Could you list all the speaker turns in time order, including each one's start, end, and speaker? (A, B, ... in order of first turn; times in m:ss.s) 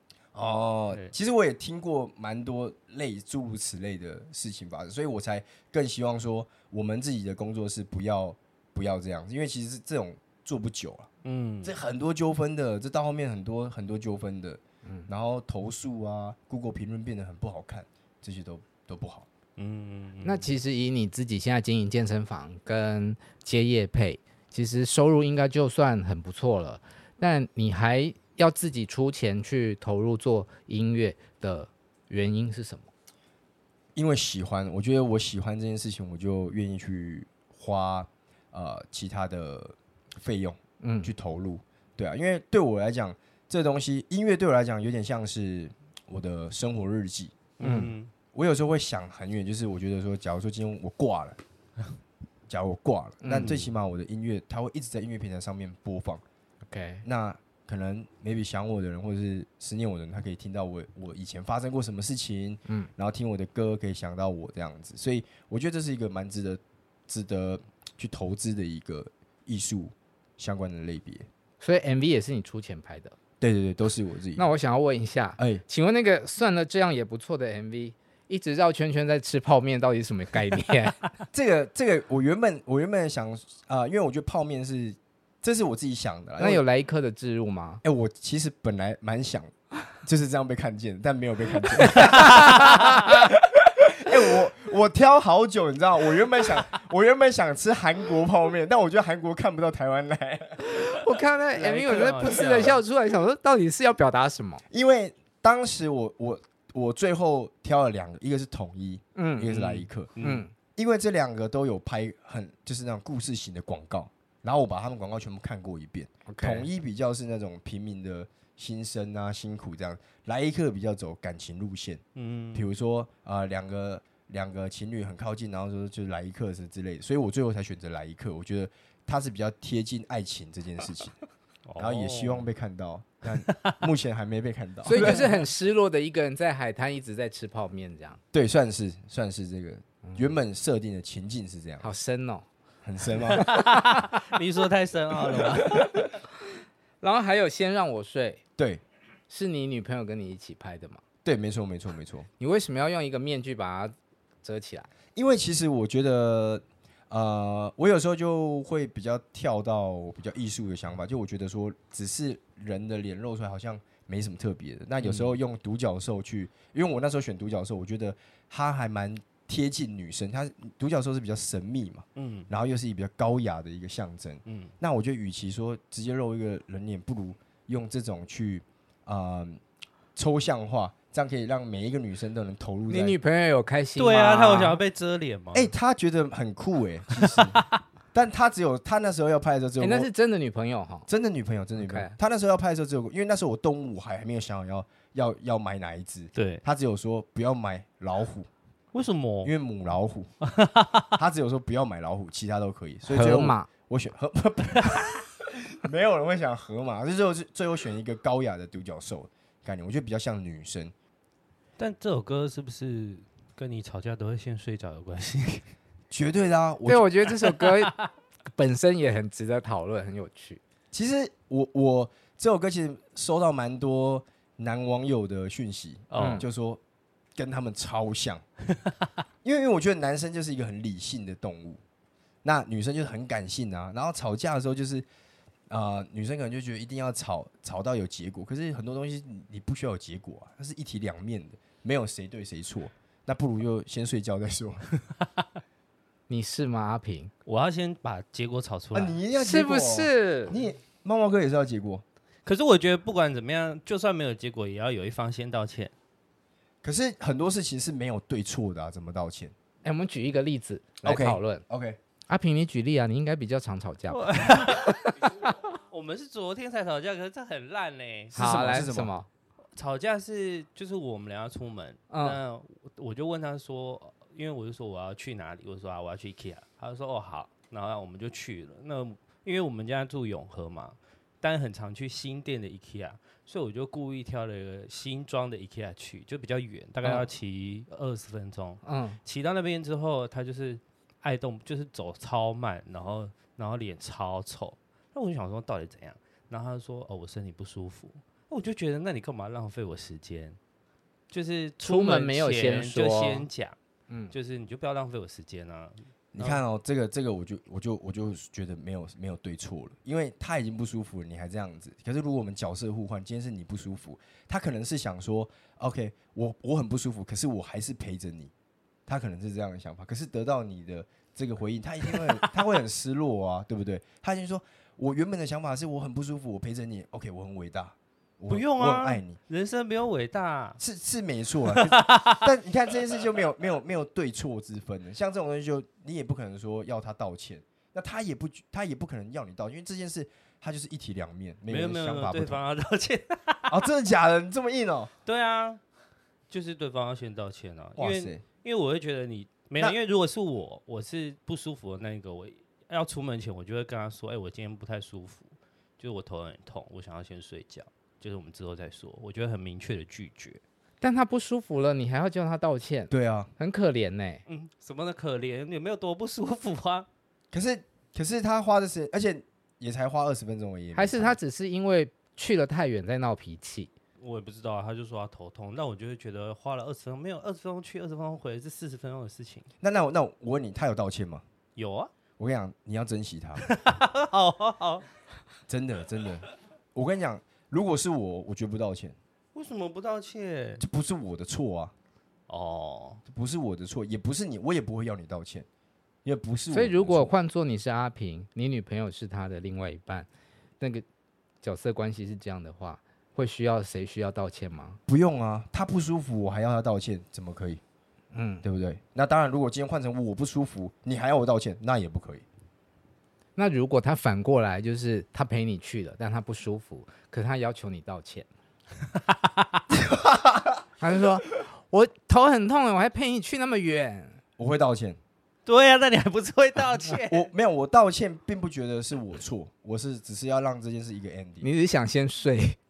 0:00.3-0:11.1 A
0:11.2-0:11.7 B
0:11.6-0:19.3 A
0:19.6-0:20.5 B
0:20.2-0:32.9 C
0:33.9-0:47.5 A
0:40.8-0:41.1 C
0:47.6-0:48.1 B
0:47.6-0:47.9 C
0:48.3-0:51.4 A
0:52.5-0:56.2 A
0:53.2-0:53.7 C
0:56.7-0:57.0 C
0:57.0-1:11.3 A
1:11.6-1:13.2 C
1:13.4-1:14.5 A
1:14.4-1:21.0 C
1:15.4-1:15.6 A
1:21.3-1:26.6 A
1:26.4-1:27.8 C
1:27.8-1:29.5 A
1:30.0-1:40.6 A
1:31.7-1:33.2 C
1:40.6-1:44.6 C
1:41.6-1:42.8 B
1:42.4-1:42.6 A
1:44.7-1:50.1 A
1:49.2-1:50.5 C
1:50.2-1:50.4 B
1:50.8-2:02.0 A
1:56.3-1:56.7 C
2:02.1-2:02.7 B
2:02.5-2:11.2 A
2:11.6-2:12.5 B
2:11.8-2:15.4 A
2:13.5-2:13.8 B
2:14.8-2:18.2 C
2:18.3-2:21.9 A
2:20.0-2:20.3 C
2:21.8-2:22.4 C
2:22.8-2:23.5 A
2:23.3-2:25.8 B
2:23.4-2:24.0 C
2:25.4-2:26.1 A
2:27.0-2:28.4 C
2:28.6-2:28.8 A
2:29.3-2:31.0 C
2:31.2-2:32.3 A
2:32.4-2:34.9 C
2:35.2-2:59.6 A
2:52.2-2:52.5 B
2:54.4-2:54.7 B
3:00.2-3:03.2 A
3:02.9-3:04.8 C
3:04.0-3:05.7 B
3:05.5-3:07.6 A
3:07.2-3:07.6 B
3:08.1-3:10.1 A
3:09.8-3:11.1 C
3:11.1-3:18.5 A
3:11.8-3:12.1 C
3:16.3-3:16.6 B
3:18.9-3:19.5 B
3:19.4-3:20.3 A
3:20.4-3:21.1 B
3:21.1-3:30.9 A
3:23.1-3:23.7 C
3:31.8-3:35.7 B
3:36.1-3:37.1 A
3:36.8-3:37.9 C
3:37.6-3:38.0 B
3:38.6-3:40.6 C
3:40.9-3:46.8 A
3:46.1-3:46.4 B
3:46.2-3:46.4 C
3:47.4-3:48.4 A
3:49.4-3:51.8 A
3:52.4-3:55.0 A
3:55.7-4:04.9 A
4:06.3-4:07.3 C
4:07.4-4:09.2 B
4:08.9-4:12.0 A
4:09.4-4:10.6 C
4:12.4-4:15.9 B
4:16.8-4:19.5 A
4:19.8-4:21.6 C
4:21.0-4:22.0 A
4:22.3-4:25.4 C
4:24.1-4:28.8 B
4:28.3-4:29.1 A
4:28.3-4:29.3 C
4:29.8-5:00.6 B
4:32.1-4:32.4 C
4:48.8-4:49.2 C
5:01.3-5:03.8 B
5:01.8-5:03.5 C
5:04.1-5:04.3 C
5:04.3-5:06.6 B
5:06.3-5:18.5 A
5:19.1-5:29.4 A
5:28.5-5:30.8 B
5:30.8-5:42.6 A
5:31.7-5:32.4 B
5:41.7-5:43.9 B
5:43.7-5:45.1 A
5:45.2-5:45.8 B
5:46.5-6:00.6 B
5:48.0-5:48.4 A
6:01.0-6:04.4 C
6:03.1-6:03.5 A
6:04.5-6:07.1 B
6:07.5-6:11.4 A
6:10.9-6:13.9 C
6:14.2-6:19.7 B
6:19.8-6:21.4 A
6:21.8-6:22.1 B
6:22.4-6:23.6 A
6:23.6-6:25.0 B
6:25.7-6:29.2 A
6:29.5-6:30.8 B
6:30.8-6:31.9 A
6:32.5-6:33.2 B
6:33.2-6:35.6 A
6:36.2-6:37.3 A
6:36.7-6:40.3 C
6:40.8-6:41.0 C
6:41.6-6:45.0 C
6:45.1-6:47.8 A
6:48.3-6:48.6 C
6:48.6-6:52.4 A
6:53.6-6:58.5 C
6:59.9-7:00.8 A
7:01.0-7:04.4 C
7:04.6-7:05.2 A
7:05.6-7:07.5 B
7:07.2-7:11.7 A
7:11.6-7:12.8 C